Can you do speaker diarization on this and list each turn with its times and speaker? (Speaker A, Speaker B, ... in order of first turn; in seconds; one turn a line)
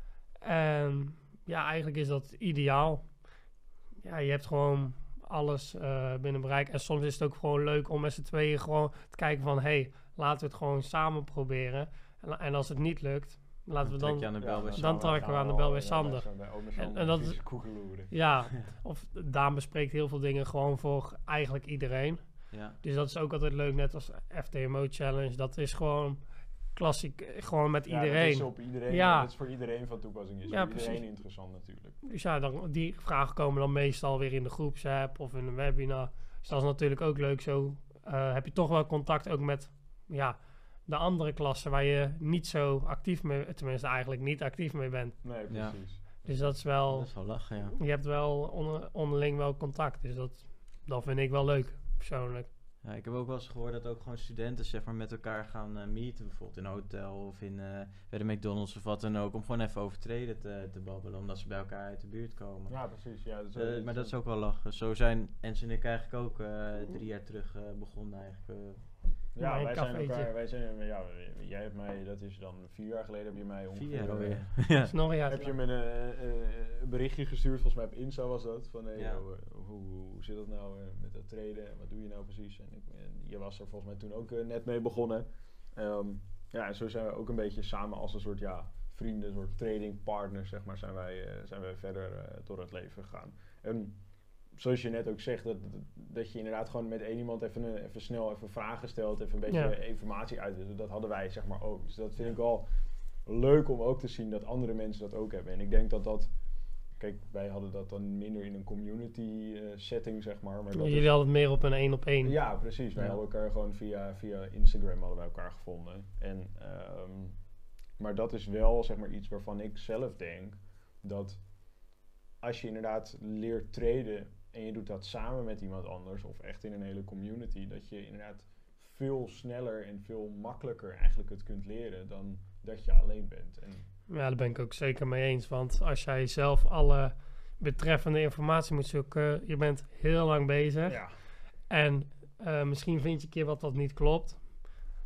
Speaker A: 0.4-3.2
Speaker A: 4.0-29.3
Speaker B: 13.8-15.2
Speaker C: 14.4-18.1
Speaker B: 22.5-22.8
Speaker C: 27.9-32.0
Speaker A: 30.5-31.4
Speaker A: 32.0-45.2
Speaker C: 45.2-46.6
Speaker B: 45.5-46.2
Speaker A: 46.2-52.5
Speaker B: 46.9-47.8
Speaker B: 52.8-68.9
Speaker C: 62.7-64.2
Speaker C: 69.3-74.7
Speaker A: 69.4-70.3
Speaker B: 73.7-75.0
Speaker A: 74.9-75.6
Speaker C: 75.2-102.7
Speaker B: 79.0-79.2
Speaker A: 99.5-99.8
Speaker C: 103.2-106.3
Speaker C: 106.9-111.2
Speaker A: 110.7-112.3
Speaker C: 112.2-117.5
Speaker C: 118.0-121.4
Speaker C: 122.4-133.9
Speaker A: 134.1-144.9
Speaker C: 140.9-141.1